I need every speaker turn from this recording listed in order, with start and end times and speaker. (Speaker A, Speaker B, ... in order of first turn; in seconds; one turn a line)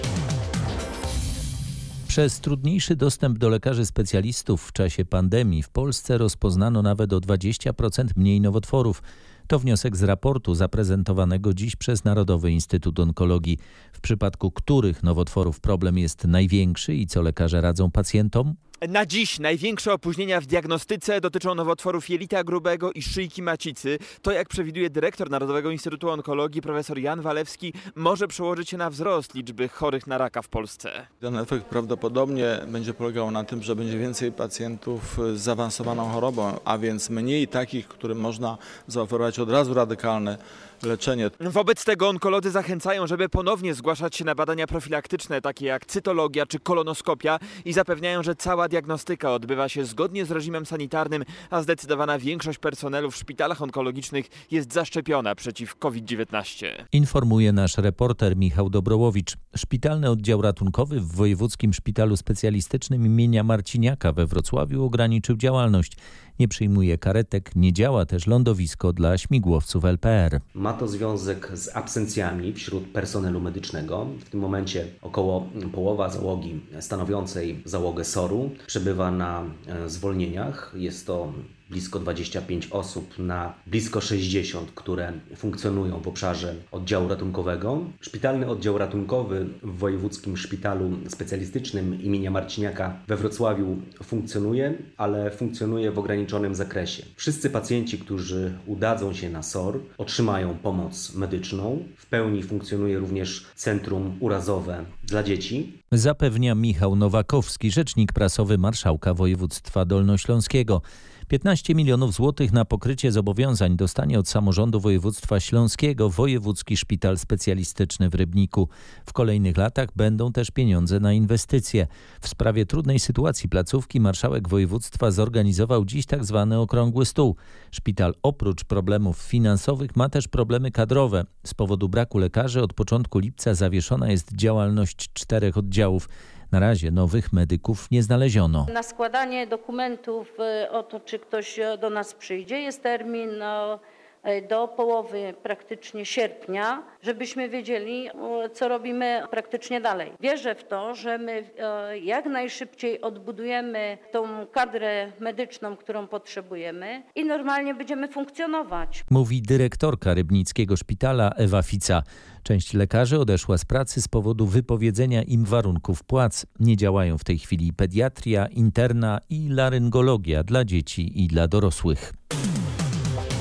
Speaker A: 2.1-18.6
Speaker B: 18.8-31.1
Speaker C: 31.2-41.3
Speaker B: 41.4-56.9
Speaker A: 56.9-70.4
Speaker D: 70.5-105.8
Speaker A: 105.9-138.7
Speaker E: 138.7-159.0
Speaker A: 159.1-172.1